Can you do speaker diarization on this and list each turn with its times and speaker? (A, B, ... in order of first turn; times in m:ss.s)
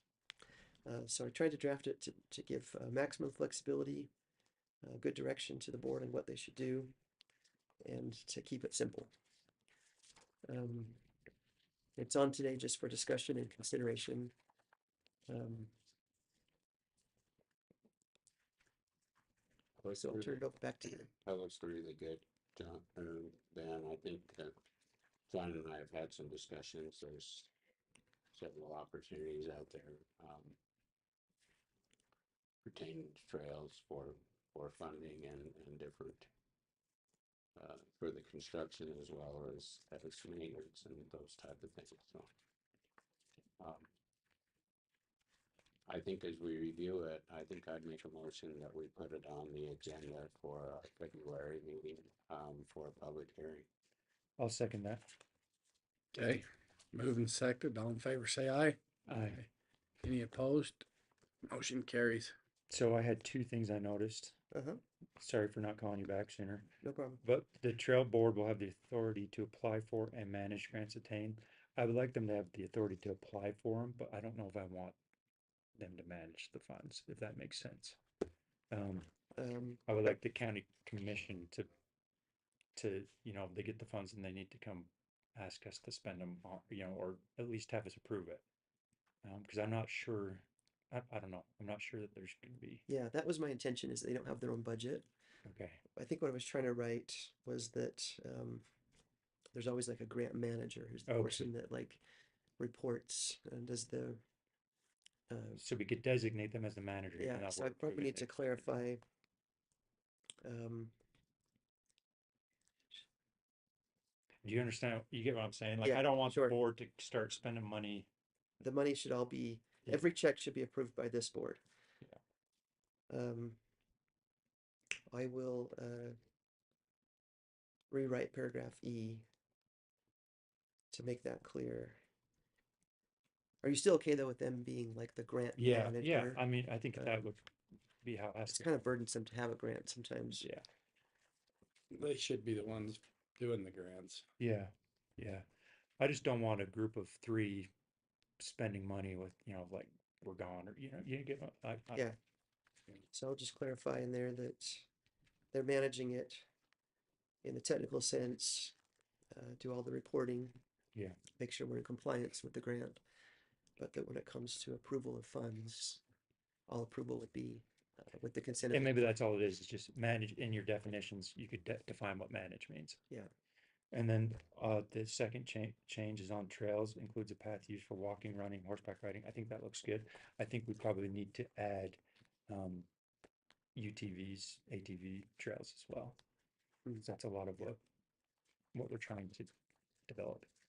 0:00.8-0:04.1 A
0:04.8-0:06.9 A
0:07.8-0:09.1 A
0:10.5-0:11.0 A
0:12.0-0:14.3 A
0:15.3-0:15.7 A
0:19.8-0:20.4 B
0:19.9-0:21.1 A
0:21.2-0:24.6 B
0:25.3-0:27.5 B
0:28.3-0:30.6 B
0:32.6-0:36.3 B
0:37.6-0:42.3 B
0:43.6-0:43.9 B
0:45.9-0:53.7 B
0:54.4-0:55.1 C
0:56.1-0:58.8 D
0:59.1-0:59.4 C
1:00.0-1:00.9 D
1:01.4-1:02.4 D
1:02.7-1:04.4 C
1:04.5-1:04.8 A
1:05.2-1:15.0 C
1:06.8-1:07.2 A
1:15.8-1:18.0 C
1:18.7-1:19.1 C
1:19.4-1:20.1 A
1:19.9-1:21.7 C
1:22.8-1:28.4 C
1:29.2-1:32.9 C
1:32.9-1:35.1 A
1:35.4-1:35.8 C
1:35.9-1:38.6 A
1:39.5-1:42.0 A
1:41.1-1:41.5 C
1:42.6-1:44.2 A
1:45.3-1:45.6 A
1:45.6-1:48.3 C
1:47.2-1:49.0 A
1:50.4-1:50.9 A
1:54.4-1:58.1 C
1:55.8-1:56.6 A
1:58.6-2:01.6 A
2:03.1-2:03.6 A
2:05.1-2:06.2 A
2:07.9-2:09.3 A
2:10.9-2:12.0 A
2:13.6-2:16.4 A
2:15.6-2:17.5 C
2:18.0-2:18.7 C
2:18.5-2:20.5 A
2:20.4-2:20.6 C
2:21.9-2:24.3 D
2:24.4-2:25.4 C
2:26.0-2:27.7 C
2:28.4-2:32.1 C
2:33.1-2:34.9 A
2:35.5-2:36.5 A
2:37.4-2:38.8 A
2:39.3-2:40.6 A
2:41.4-2:43.0 A
2:43.8-2:46.0 A
2:46.7-2:49.0 A
2:48.7-2:53.0 C
2:53.9-3:02.9 C
3:03.8-3:06.2 C
3:07.0-3:07.8 C
3:08.7-3:09.5 C
3:10.1-3:10.5 C